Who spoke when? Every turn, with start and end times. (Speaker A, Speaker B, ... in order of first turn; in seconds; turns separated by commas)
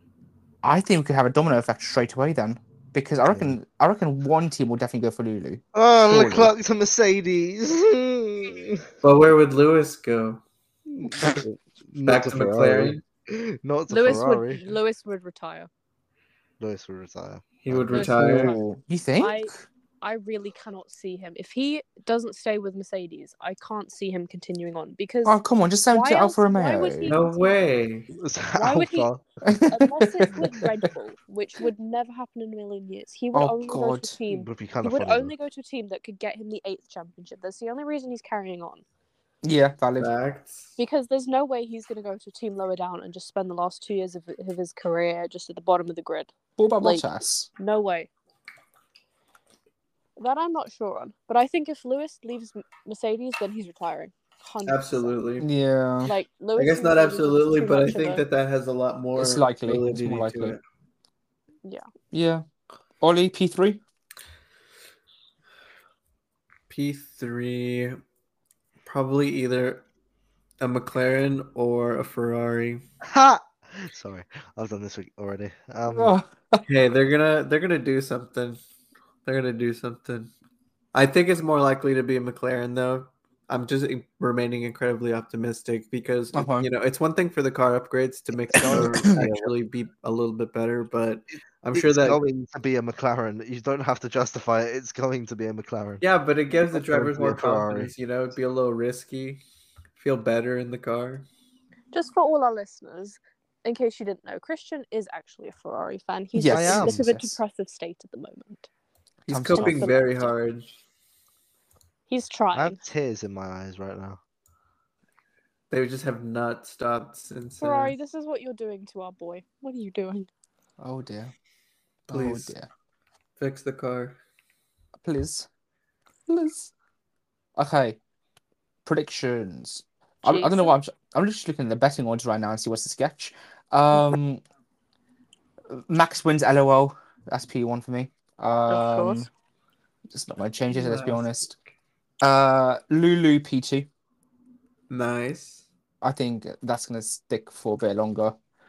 Speaker A: 0.6-6.5, Speaker B: 3.2-3.5, Speaker B: 5.7-8.8, Speaker C: 9.0-10.4, Speaker B: 10.9-14.7, Speaker C: 12.0-13.0, Speaker D: 13.9-15.7, Speaker B: 16.6-18.6, Speaker C: 17.6-18.6, Speaker A: 17.9-19.6, Speaker D: 19.2-27.6, Speaker A: 25.2-27.2, Speaker C: 27.1-28.1, Speaker B: 28.1-29.2, Speaker D: 28.6-29.1, Speaker A: 29.4-30.7, Speaker D: 29.7-38.8, Speaker A: 33.3-34.2, Speaker B: 34.3-35.3, Speaker A: 39.4-40.1, Speaker C: 40.0-40.8, Speaker D: 40.8-46.3, Speaker A: 46.6-47.5, Speaker D: 47.6-48.1, Speaker D: 50.2-55.1, Speaker C: 54.6-55.5, Speaker A: 55.4-56.1, Speaker D: 56.0-58.2, Speaker C: 56.5-60.6, Speaker A: 59.1-60.5, Speaker A: 62.1-62.4, Speaker A: 63.0-63.8, Speaker C: 66.7-68.0, Speaker C: 68.8-69.8, Speaker C: 70.6-72.8, Speaker B: 73.0-76.1, Speaker A: 75.9-76.6, Speaker C: 76.7-78.6, Speaker C: 79.2-80.3, Speaker C: 80.9-92.2, Speaker A: 86.3-86.7, Speaker B: 88.5-89.5, Speaker A: 88.5-89.3, Speaker B: 91.7-96.0, Speaker C: 96.0-99.4, Speaker B: 96.7-97.9, Speaker C: 100.0-101.3, Speaker D: 101.9-108.7, Speaker A: 106.3-107.4, Speaker B: 106.5-107.1, Speaker C: 109.2-110.7, Speaker A: 109.3-109.9, Speaker D: 109.5-110.3, Speaker D: 112.1-112.8, Speaker B: 112.5-114.2, Speaker C: 115.7-117.9, Speaker D: 117.6-120.3, Speaker A: 120.8-121.3, Speaker A: 122.1-122.7, Speaker C: 122.1-122.5, Speaker C: 123.4-124.2, Speaker A: 125.0-125.5, Speaker A: 126.3-126.7, Speaker A: 127.5-128.0, Speaker A: 128.8-134.4, Speaker D: 130.2-130.7, Speaker A: 135.7-139.3, Speaker D: 138.7-139.3, Speaker A: 140.1-141.5, Speaker C: 140.7-141.5, Speaker A: 142.2-143.9, Speaker C: 144.9-145.7, Speaker A: 146.0-148.4